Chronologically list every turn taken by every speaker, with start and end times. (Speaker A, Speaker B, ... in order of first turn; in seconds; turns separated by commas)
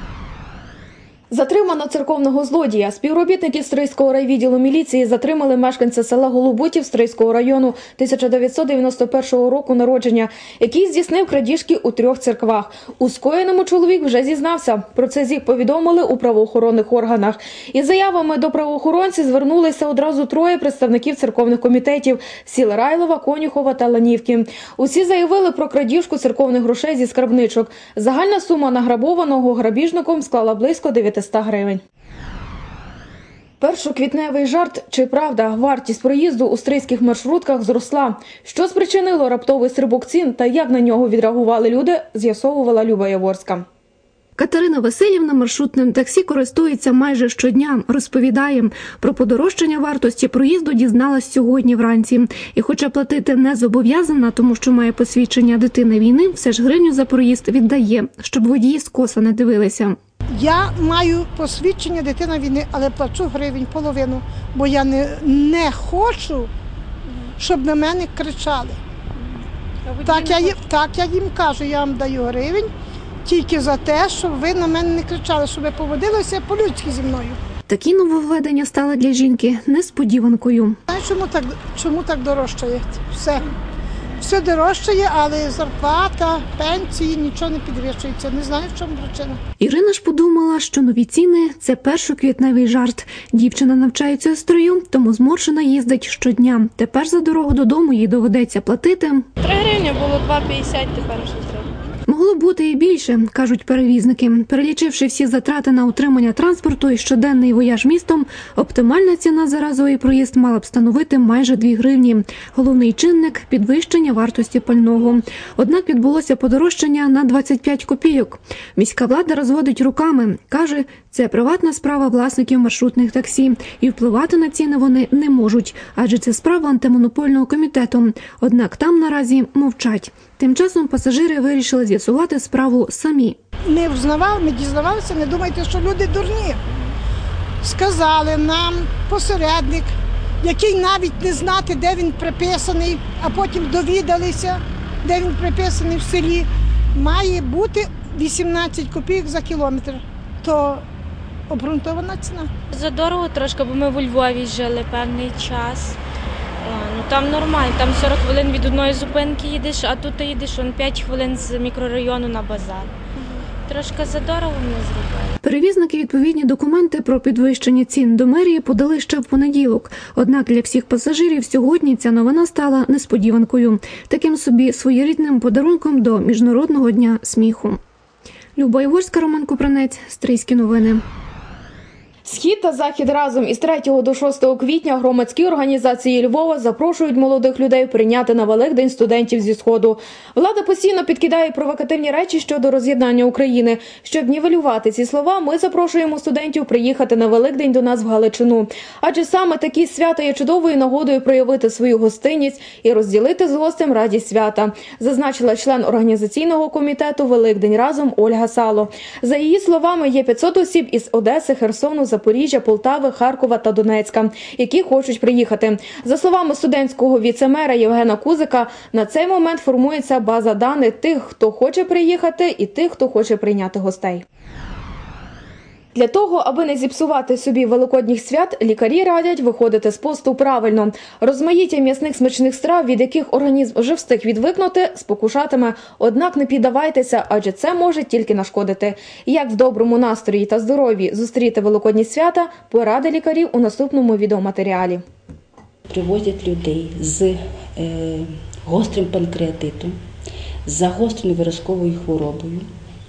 Speaker A: 1.3-31.8, Speaker A: 33.6-43.6, Speaker B: 44.4-60.0, Speaker C: 60.3-66.5, Speaker C: 67.4-68.8, Speaker C: 69.9-72.7, Speaker D: 69.9-70.6, Speaker C: 73.2-77.4, Speaker B: 77.7-80.8, Speaker C: 80.9-83.4, Speaker C: 84.2-89.4, Speaker B: 89.6-99.3, Speaker D: 99.4-101.7, Speaker B: 102.1-133.4, Speaker C: 133.7-136.6, Speaker C: 137.6-150.8, Speaker C: 151.5-152.5, Speaker D: 152.7-156.0, Speaker D: 156.6-165.4, Speaker B: 165.4-177.8, Speaker B: 178.6-181.0, Speaker A: 182.2-224.2, Speaker A: 225.9-245.0, Speaker E: 245.9-250.0, Speaker E: 250.6-252.7